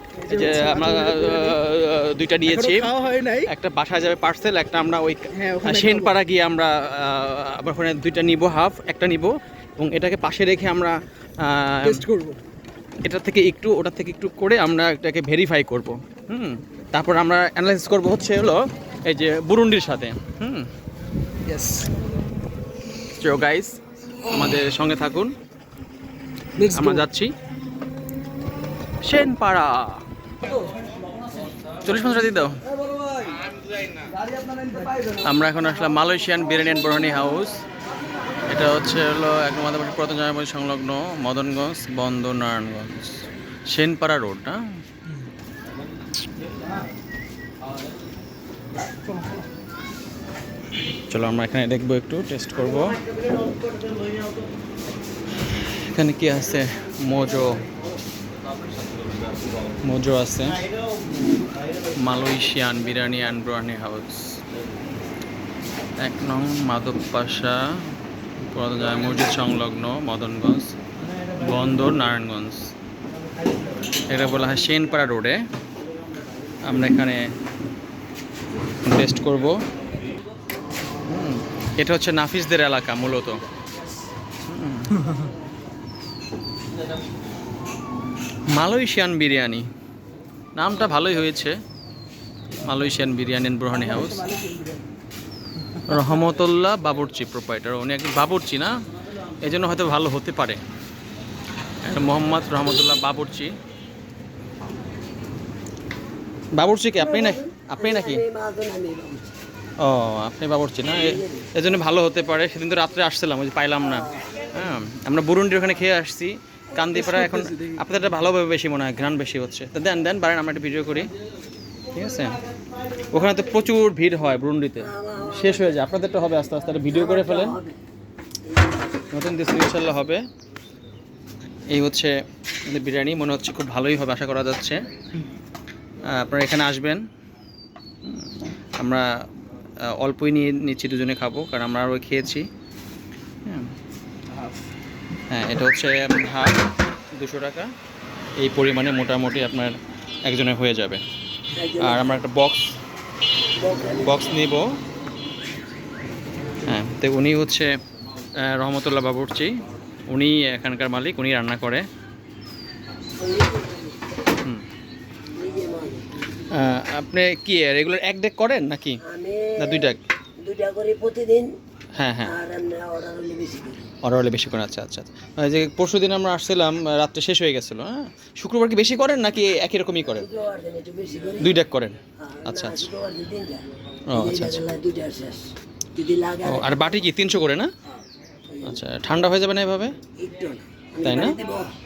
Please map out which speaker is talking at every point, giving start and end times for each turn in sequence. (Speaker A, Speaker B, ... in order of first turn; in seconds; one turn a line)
Speaker A: 0.1-1.6
Speaker B: 0.3-2.9
Speaker A: 2.5-3.5
Speaker B: 3.5-12.1
Speaker A: 5.3-6.1
Speaker A: 11.8-12.4
Speaker B: 13.0-20.7
Speaker A: 21.4-21.9
Speaker B: 23.1-25.3
Speaker A: 26.6-27.0
Speaker B: 26.6-27.3
Speaker B: 29.0-30.0
Speaker B: 31.8-32.5
Speaker B: 35.2-37.6
Speaker B: 38.5-44.6
Speaker B: 51.1-53.0
Speaker B: 55.5-57.6
Speaker B: 59.8-60.6
Speaker B: 61.9-64.4
Speaker B: 66.0-67.8
Speaker B: 68.4-70.7
Speaker B: 71.3-72.7
Speaker B: 74.1-75.4
Speaker B: 76.7-77.2
Speaker B: 78.8-79.6
Speaker B: 81.1-83.4
Speaker B: 84.5-85.2
Speaker B: 88.5-89.7
Speaker B: 90.5-91.5
Speaker B: 92.6-94.3
Speaker A: 93.9-94.8
Speaker B: 95.8-98.7
Speaker B: 99.4-100.6
Speaker B: 101.8-103.5
Speaker B: 106.5-108.2
Speaker C: 107.0-109.4
Speaker B: 109.8-121.1
Speaker C: 110.9-111.5
Speaker C: 113.9-114.3
Speaker A: 116.8-117.8
Speaker B: 121.9-122.4
Speaker B: 123.1-127.6
Speaker C: 124.8-125.8
Speaker C: 126.9-127.8
Speaker C: 128.4-128.9
Speaker B: 129.1-130.2
Speaker B: 131.7-132.1
Speaker B: 132.7-134.8
Speaker B: 136.1-137.0
Speaker B: 138.0-139.1
Speaker B: 139.9-142.5
Speaker B: 145.3-146.6
Speaker B: 147.1-147.7
Speaker B: 148.4-151.0
Speaker C: 151.5-152.2
Speaker B: 151.8-152.8
Speaker C: 153.6-154.3
Speaker B: 154.0-154.7
Speaker B: 156.6-157.7
Speaker B: 158.4-161.8
Speaker C: 163.2-164.0
Speaker C: 165.3-166.1
Speaker B: 166.5-169.0
Speaker C: 169.0-171.5
Speaker B: 169.6-170.0
Speaker B: 171.9-172.3
Speaker C: 172.2-173.9
Speaker B: 174.0-180.3
Speaker C: 180.1-181.6
Speaker B: 181.4-182.9
Speaker C: 182.2-187.0
Speaker B: 184.1-184.6
Speaker B: 186.4-187.7
Speaker C: 187.9-188.8
Speaker B: 188.6-189.9
Speaker C: 190.2-191.7
Speaker B: 191.0-191.4